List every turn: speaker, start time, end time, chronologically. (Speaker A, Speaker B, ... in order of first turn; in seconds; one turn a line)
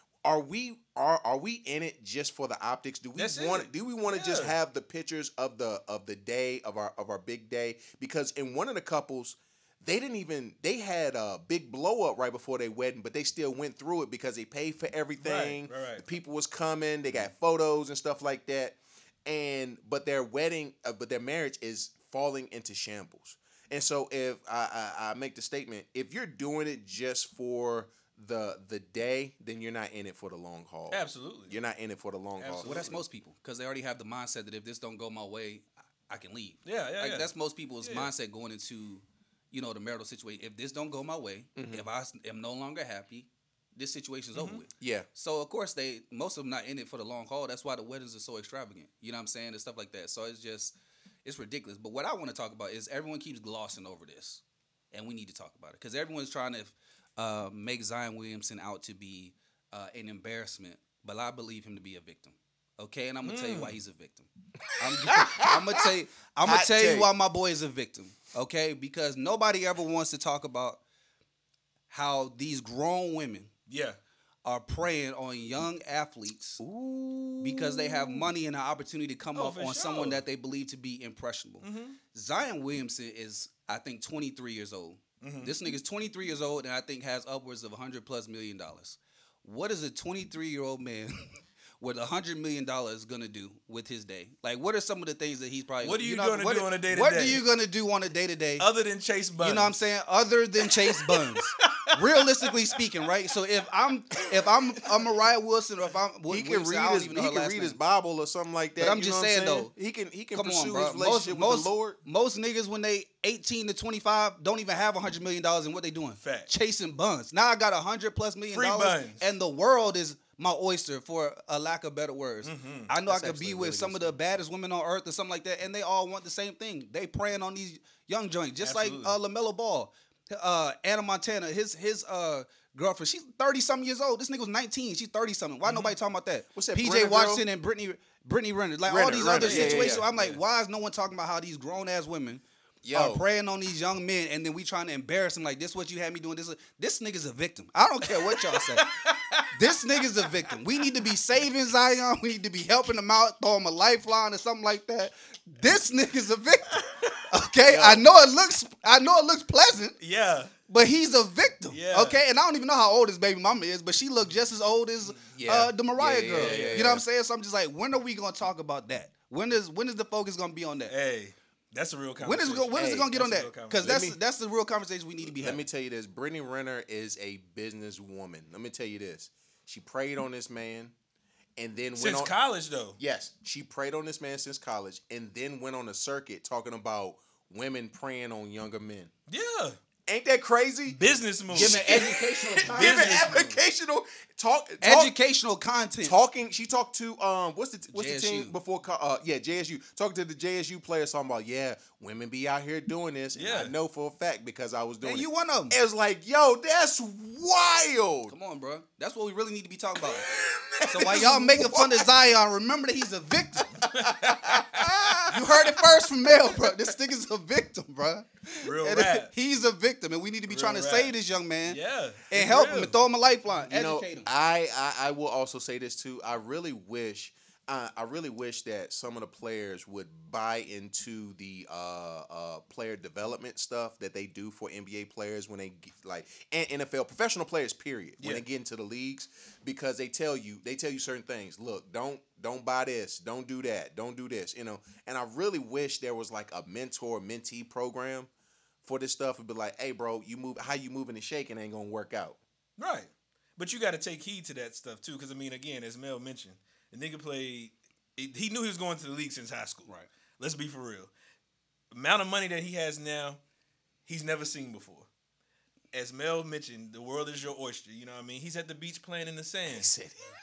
Speaker A: 0.2-33.0
Speaker B: 3.1-4.5
Speaker B: 15.2-16.1
Speaker B: 30.9-31.6
Speaker B: 32.4-33.0
Speaker C: 32.6-54.4
Speaker B: 36.6-37.3
Speaker B: 37.8-38.1
Speaker A: 41.6-41.9
Speaker B: 44.4-44.6
Speaker A: 44.8-45.1
Speaker C: 54.9-70.8
Speaker B: 63.2-63.8
Speaker A: 65.0-65.8
Speaker A: 66.4-67.1
Speaker C: 71.9-73.5
Speaker B: 73.7-74.0
Speaker C: 74.4-76.6
Speaker A: 76.6-78.3
Speaker C: 77.4-91.2
Speaker B: 79.3-80.2
Speaker B: 81.6-82.0
Speaker B: 85.2-85.5
Speaker C: 91.8-98.7
Speaker B: 95.8-97.4
Speaker B: 98.6-99.7
Speaker C: 99.4-107.8
Speaker B: 100.9-102.8
Speaker A: 106.3-112.0
Speaker C: 108.8-109.7
Speaker C: 110.3-148.9
Speaker B: 116.2-116.5
Speaker B: 118.5-119.2
Speaker B: 122.4-122.9
Speaker A: 123.0-124.4
Speaker B: 128.6-129.1
Speaker B: 135.6-135.9
Speaker A: 136.5-137.4
Speaker A: 138.9-140.1
Speaker B: 139.4-140.4
Speaker A: 142.8-143.2
Speaker B: 148.2-149.5
Speaker C: 149.5-159.9
Speaker A: 157.7-158.1
Speaker B: 160.0-160.5
Speaker C: 160.7-170.9
Speaker B: 161.7-162.2
Speaker A: 165.3-167.0
Speaker B: 166.4-167.0
Speaker B: 170.9-174.0
Speaker C: 172.2-175.6
Speaker A: 172.8-173.1
Speaker A: 173.8-174.2
Speaker A: 175.2-180.9
Speaker A: 181.6-182.3
Speaker B: 182.0-183.0
Speaker A: 183.0-189.1
Speaker B: 189.3-189.8
Speaker A: 190.1-191.0
Speaker B: 190.9-192.1
Speaker A: 191.5-195.1
Speaker C: 191.5-193.6
Speaker B: 192.7-193.4
Speaker C: 194.8-196.2
Speaker A: 196.0-208.3
Speaker C: 197.9-198.6
Speaker B: 203.3-203.7
Speaker C: 205.0-205.8
Speaker C: 208.3-210.3
Speaker A: 210.0-212.1
Speaker C: 210.8-213.8
Speaker B: 213.8-214.9
Speaker A: 214.0-215.8
Speaker C: 215.3-221.8
Speaker B: 218.6-219.3
Speaker B: 220.5-221.1
Speaker B: 221.7-223.0
Speaker C: 222.3-224.3
Speaker A: 223.7-248.3
Speaker B: 238.2-238.4
Speaker A: 248.8-252.4
Speaker B: 252.8-259.9
Speaker B: 260.4-261.1
Speaker B: 261.9-263.4
Speaker B: 264.1-265.1
Speaker B: 265.9-269.9
Speaker A: 269.7-270.2